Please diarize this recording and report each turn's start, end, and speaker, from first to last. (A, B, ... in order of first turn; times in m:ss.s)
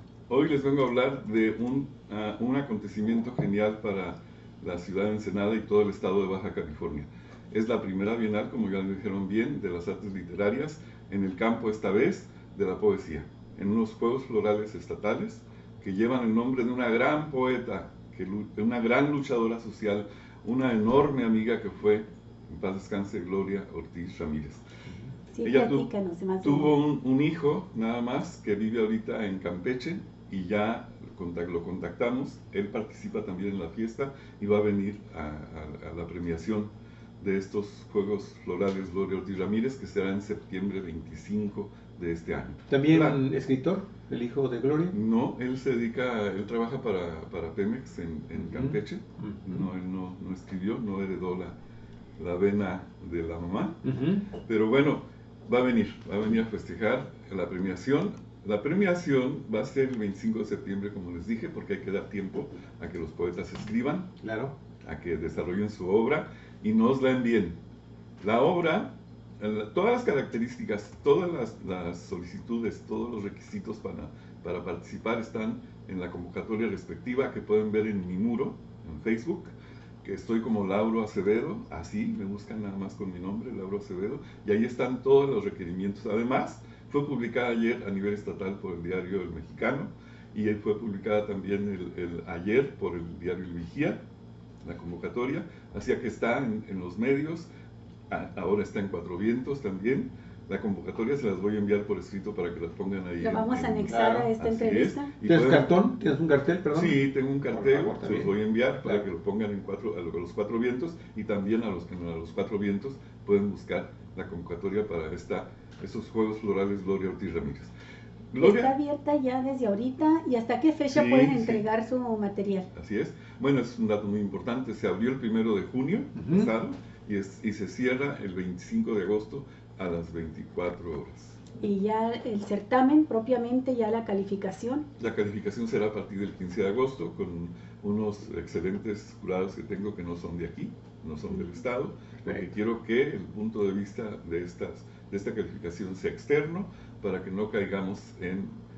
0:00.3-0:24.7 A
0:25.3-0:26.8 B
0:25.4-0:25.9 A
0:26.4-0:43.2 A
0:42.7-0:44.9 C
0:44.9-0:51.5 A
0:48.3-0:49.7 C
0:52.2-0:53.8 A
0:53.8-0:54.3 C
0:54.4-1:04.1 A
1:04.2-1:04.5 C
1:04.8-1:07.6 A
1:08.2-1:34.0 A
1:34.6-1:37.5 A
1:38.1-1:45.7 A
1:43.2-1:45.1 B
1:43.9-1:44.3 C
1:45.2-1:48.3 C
1:46.7-1:57.7 A
1:58.3-1:58.8 A
1:58.4-2:02.7 B
2:00.9-2:01.6 A
2:02.7-2:11.4 A
2:06.2-2:06.5 C
2:11.6-2:14.9 B
2:15.0-2:28.5 A